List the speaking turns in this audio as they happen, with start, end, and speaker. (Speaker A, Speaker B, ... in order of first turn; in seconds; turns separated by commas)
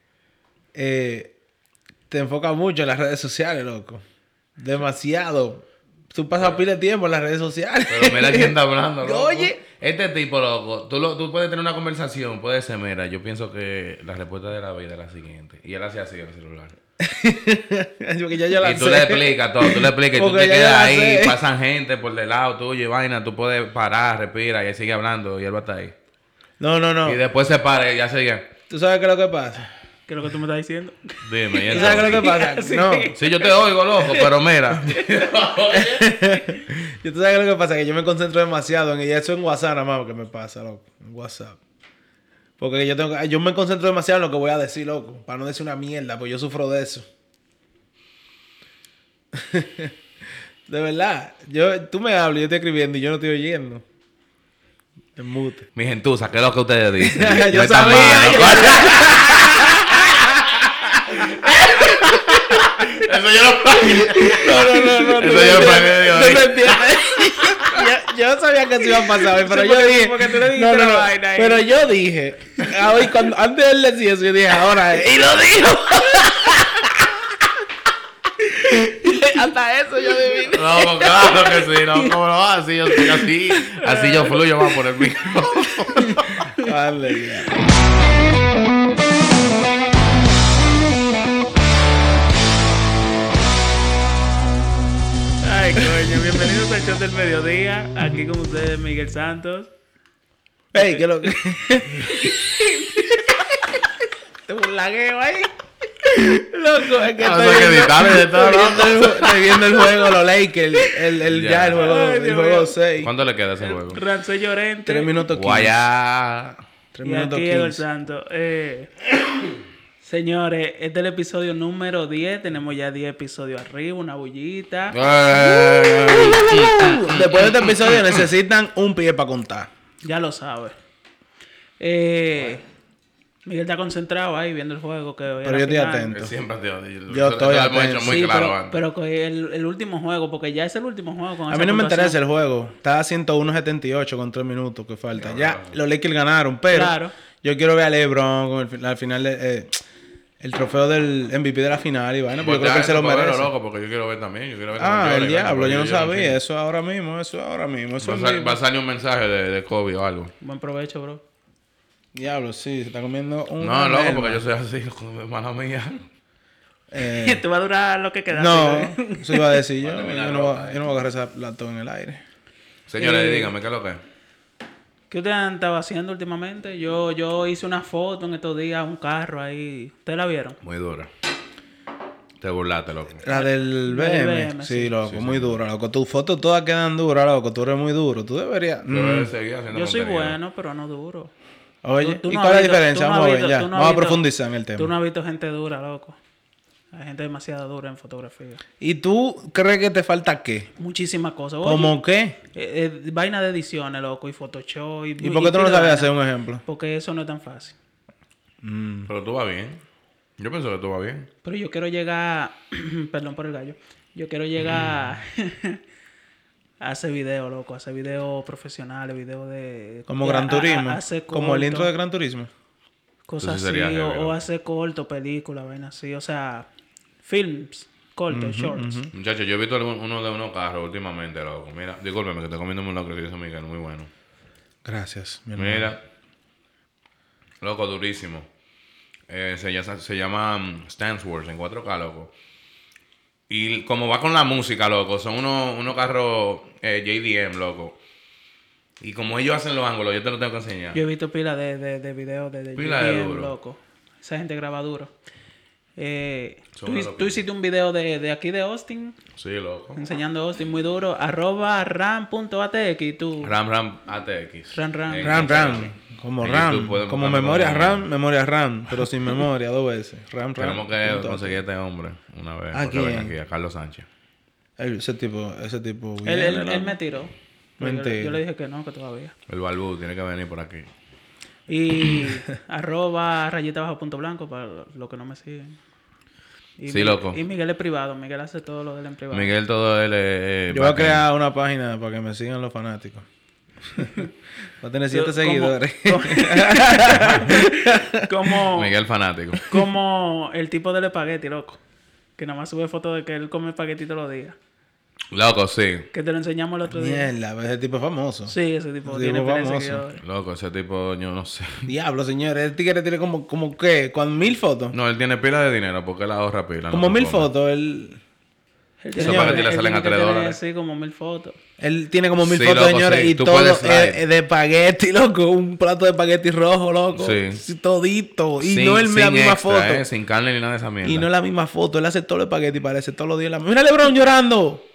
Speaker A: 0.7-1.3, Speaker A: 2.1-4.0, Speaker A: 4.6-9.6, Speaker B: 7.9-16.8, Speaker A: 17.0-21.4, Speaker B: 18.6-25.9, Speaker A: 26.6-27.2, Speaker B: 27.0-28.5, Speaker A: 28.7-29.7, Speaker C: 30.1-33.5, Speaker B: 31.2-32.3, Speaker A: 31.7-33.1, Speaker B: 33.1-36.0, Speaker C: 35.0-35.2, Speaker A: 35.8-41.6, Speaker A: 42.6-47.1, Speaker A: 49.3-49.9, Speaker A: 50.7-53.8, Speaker A: 55.2-55.7, Speaker B: 55.8-67.8, Speaker A: 57.0-60.2, Speaker C: 57.6-59.4, Speaker A: 61.2-62.7, Speaker A: 63.9-77.4, Speaker C: 64.3-65.8, Speaker C: 69.0-71.7, Speaker A: 78.5-81.2, Speaker B: 80.5-86.5, Speaker C: 80.8-82.1, Speaker C: 83.7-84.4, Speaker C: 86.1-86.7, Speaker A: 86.6-87.6, Speaker C: 95.4-99.7, Speaker A: 100.7-103.7, Speaker C: 100.8-101.0, Speaker C: 102.0-103.4, Speaker A: 104.5-105.5, Speaker A: 106.0-113.1, Speaker B: 107.2-110.0, Speaker B: 111.2-111.9, Speaker C: 111.8-112.8, Speaker B: 113.0-114.0, Speaker C: 113.6-115.2, Speaker A: 114.9-115.8, Speaker B: 115.3-116.6, Speaker A: 116.9-117.8, Speaker C: 117.0-118.9, Speaker C: 120.0-125.0, Speaker B: 124.9-128.3, Speaker A: 125.3-129.7, Speaker C: 130.0-130.8, Speaker C: 131.8-132.6, Speaker C: 133.4-136.1, Speaker A: 135.4-136.3, Speaker B: 136.1-138.8, Speaker A: 137.1-138.2, Speaker C: 138.1-142.2, Speaker A: 141.5-149.8, Speaker B: 145.2-145.8, Speaker C: 146.7-147.1, Speaker A: 150.4-153.5, Speaker B: 152.4-156.4, Speaker A: 154.8-158.6, Speaker B: 158.0-160.3, Speaker C: 160.4-161.2, Speaker A: 162.2-164.4, Speaker B: 163.6-166.1, Speaker A: 166.9-167.4, Speaker C: 167.0-169.6, Speaker A: 168.3-172.2, Speaker B: 169.8-170.8, Speaker B: 172.9-174.0, Speaker C: 173.0-173.5, Speaker C: 175.1-180.6, Speaker B: 180.6-181.1, Speaker B: 182.4-183.3, Speaker A: 183.2-189.3, Speaker C: 183.3-184.9, Speaker B: 185.0-185.6, Speaker B: 188.9-190.4, Speaker C: 189.7-191.3, Speaker A: 191.8-194.9, Speaker C: 192.0-196.2, Speaker C: 196.9-198.6, Speaker A: 198.8-200.7, Speaker C: 200.8-201.9, Speaker A: 201.6-202.4, Speaker C: 202.5-206.1, Speaker A: 205.2-206.6, Speaker C: 206.6-207.8, Speaker A: 208.6-209.1, Speaker B: 209.1-209.8, Speaker B: 210.4-211.3, Speaker C: 211.4-215.8, Speaker C: 216.8-221.9, Speaker A: 220.1-222.5, Speaker C: 223.3-226.7, Speaker B: 223.4-224.4, Speaker C: 227.2-229.0, Speaker A: 228.3-229.1, Speaker B: 229.1-234.1, Speaker A: 234.8-235.9, Speaker B: 235.6-236.0, Speaker B: 237.6-238.5, Speaker B: 239.3-242.3, Speaker B: 243.5-248.0, Speaker B: 249.0-251.0, Speaker C: 250.9-255.1, Speaker B: 252.8-253.5, Speaker C: 256.0-259.2, Speaker B: 256.8-257.4, Speaker B: 259.4-260.0, Speaker C: 259.9-263.5, Speaker B: 263.4-268.1, Speaker C: 264.7-265.9, Speaker A: 265.2-271.6, Speaker B: 270.6-274.1, Speaker A: 272.7-273.3, Speaker A: 274.8-277.0, Speaker C: 276.2-279.3, Speaker A: 277.8-278.4, Speaker B: 279.5-280.9, Speaker C: 281.7-285.8, Speaker C: 286.8-289.5, Speaker B: 286.9-287.4, Speaker B: 289.3-291.3, Speaker A: 290.7-293.3, Speaker A: 293.9-294.2, Speaker C: 294.0-294.3, Speaker A: 294.8-298.6, Speaker C: 295.1-298.9, Speaker B: 298.7-299.7, Speaker C: 299.7-301.8, Speaker C: 302.4-304.6, Speaker B: 305.3-306.1, Speaker C: 306.1-307.3, Speaker A: 306.9-310.0, Speaker C: 308.5-310.2, Speaker B: 310.2-311.9, Speaker A: 311.9-314.9, Speaker B: 314.9-317.5, Speaker A: 316.9-318.2, Speaker C: 319.0-321.6, Speaker A: 319.2-319.7, Speaker B: 319.2-320.6, Speaker A: 321.8-330.0, Speaker B: 322.4-324.2, Speaker B: 327.1-327.6, Speaker B: 328.6-331.3, Speaker A: 331.0-334.9